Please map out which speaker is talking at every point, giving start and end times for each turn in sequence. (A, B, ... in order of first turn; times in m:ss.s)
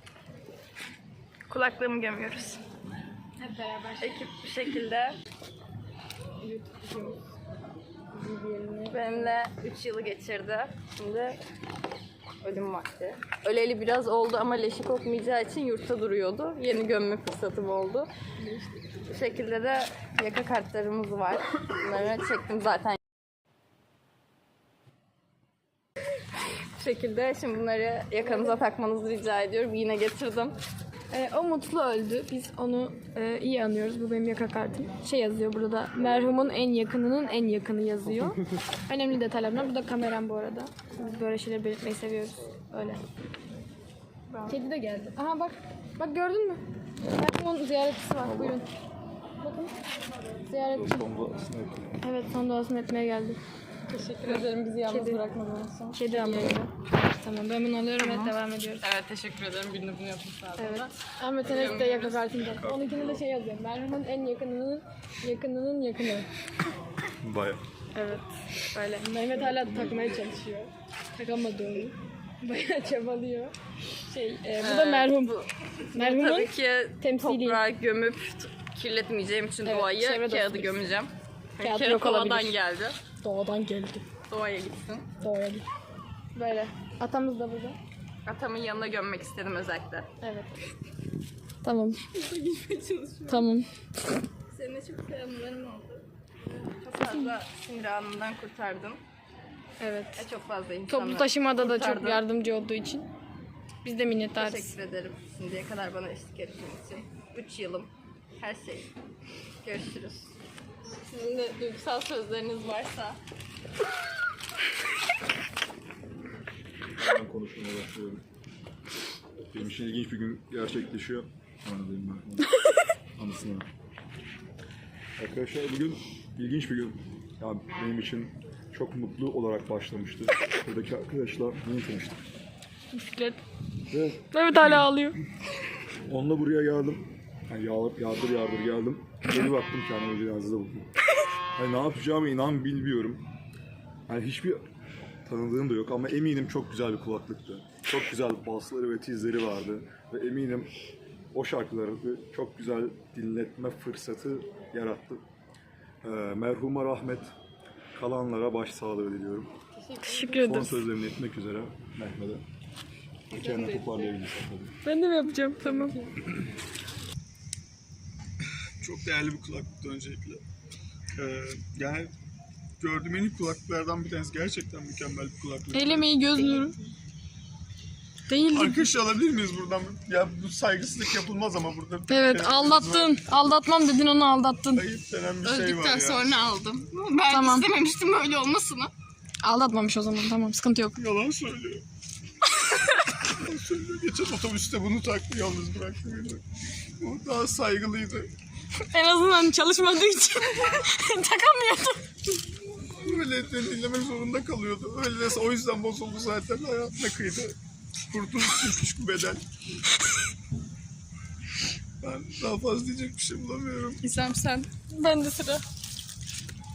0:01.5-0:02.6 A
0:03.4-0:04.2 B
0:04.0-0:05.2 A
0:06.4-0:07.2 B
0:08.1-0:09.4 B
0:08.9-0:11.4 A
0:12.4-0:18.1 A
0:19.1-0:23.0 A
0:26.8-0:30.6 A
0:31.1-0:43.0 B
0:44.3-0:44.5 A
0:44.5-0:48.7 B
0:48.2-0:48.6 C
0:49.4-0:49.7 B
0:50.4-0:51.1 B
0:50.7-0:51.9 C
0:52.0-0:53.4 B
0:53.9-0:56.6 A
0:54.9-0:55.2 B
0:55.9-0:58.8 B
0:58.0-1:00.9 A
1:00.6-1:06.3 B
1:01.4-1:02.7 A
1:07.2-1:07.6 C
1:07.9-1:13.5 B
1:09.4-1:10.0 C
1:14.1-1:15.4 B
1:14.6-1:23.0 A
1:15.9-1:17.6 B
1:19.6-1:20.9 B
1:21.6-1:22.6 B
1:23.2-1:24.0 B
1:24.3-1:25.1 A
1:25.2-1:25.6 B
1:26.3-1:27.8 B
1:28.2-1:30.1 A
1:30.2-1:30.6 B
1:31.6-1:32.0 B
1:32.1-1:33.4 A
1:33.3-1:33.7 B
1:34.5-1:36.0 A
1:36.7-1:39.0 A
1:39.8-1:40.2 B
1:40.2-1:42.2 A
1:40.9-1:43.0 B
1:43.8-1:44.7 B
1:44.4-1:48.9 A
1:49.6-1:50.3 A
1:51.0-1:53.2 A
1:57.0-1:58.2 C
1:59.5-2:02.6 C
2:03.2-2:03.7 C
2:05.2-2:12.2 C
2:12.9-2:13.4 B
2:13.9-2:14.3 C
2:14.3-2:15.2 B
2:16.1-2:20.9 C
2:21.5-2:23.2 C
2:24.1-2:24.6 C
2:25.2-2:30.7 C
2:31.3-2:35.2 C
2:36.0-2:37.3 C
2:37.9-2:39.5 C
2:39.8-2:40.4 A
2:40.0-2:40.8 B
2:40.4-2:42.4 C
2:43.3-2:44.8 C
2:43.3-2:44.1 A
2:44.8-2:46.0 B
2:48.8-2:50.4 D
2:51.2-2:52.1 D
2:52.8-2:56.3 D
2:55.7-2:56.8 B
2:58.3-2:58.9 B
2:58.5-3:03.1 D
3:02.1-3:04.9 B
3:04.8-3:06.3 D
3:05.4-3:08.9 A
3:07.2-3:07.7 B
3:09.4-3:11.0 B
3:11.0-3:11.8 D
3:13.3-3:16.4 D
3:17.0-3:18.3 D
3:18.8-3:22.1 B
3:23.0-3:27.5 D
3:28.1-3:29.4 D
3:32.0-3:34.0 D
3:34.0-3:34.7 A
3:34.9-3:35.6 B